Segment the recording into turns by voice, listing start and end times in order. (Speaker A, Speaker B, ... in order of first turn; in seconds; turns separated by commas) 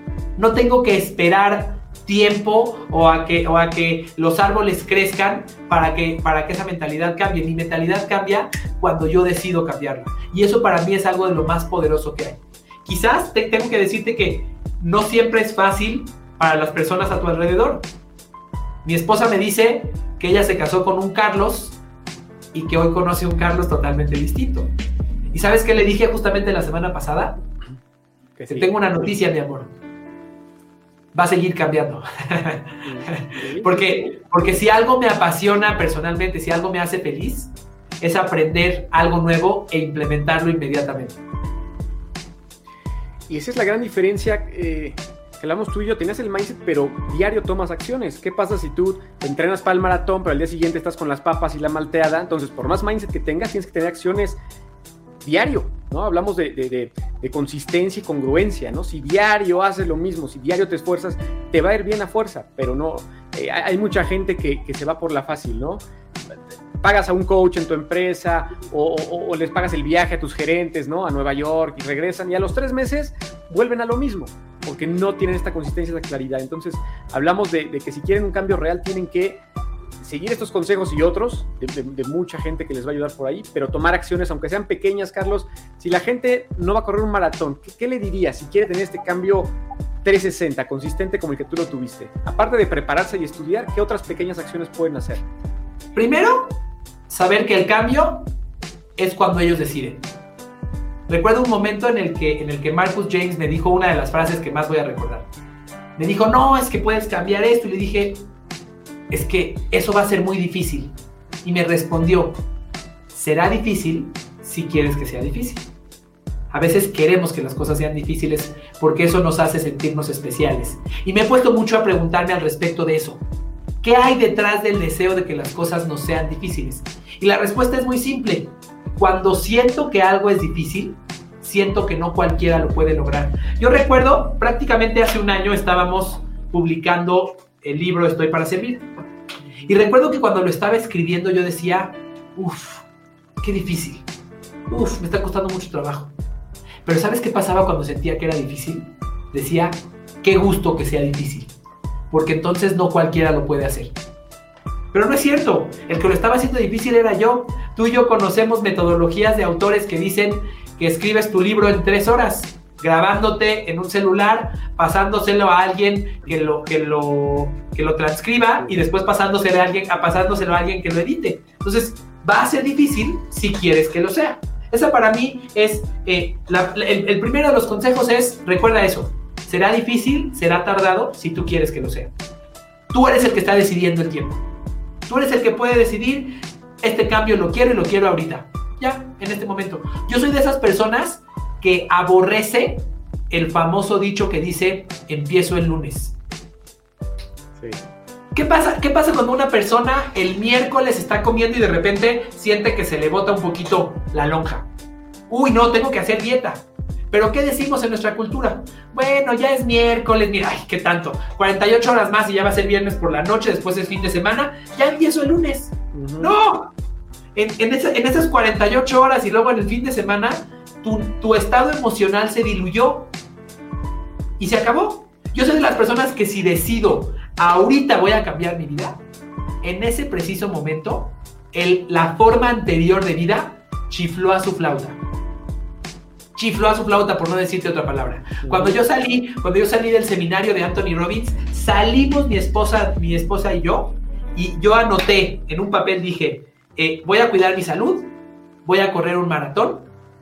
Speaker A: 0.4-17.9, Speaker A: 18.8-21.8, Speaker A: 22.5-24.7, Speaker A: 25.3-27.4, Speaker B: 28.4-29.1, Speaker A: 28.5-29.7, Speaker A: 31.1-41.2, Speaker B: 32.8-34.1, Speaker B: 43.3-54.4, Speaker B: 55.2-65.8, Speaker B: 66.3-79.4, Speaker B: 80.0-95.2, Speaker A: 95.9-96.6, Speaker A: 97.1-98.3, Speaker A: 99.0-100.0, Speaker A: 101.1-105.3, Speaker A: 106.0-108.2, Speaker A: 109.1-112.4, Speaker A: 113.1-115.7, Speaker A: 116.5-123.2, Speaker A: 123.8-138.9, Speaker A: 139.7-142.8, Speaker A: 143.4-144.1, Speaker A: 144.7-146.1, Speaker A: 146.8-151.5, Speaker A: 152.1-153.9, Speaker A: 154.9-182.1, Speaker A: 182.9-184.4, Speaker A: 185.1-196.2, Speaker B: 197.6-197.8, Speaker A: 198.3-204.7, Speaker A: 205.3-216.7, Speaker B: 215.9-216.3, Speaker A: 217.3-223.1, Speaker A: 224.4-229.0, Speaker A: 229.6-235.0, Speaker A: 236.3-248.1, Speaker B: 238.4-238.8, Speaker A: 248.6-249.9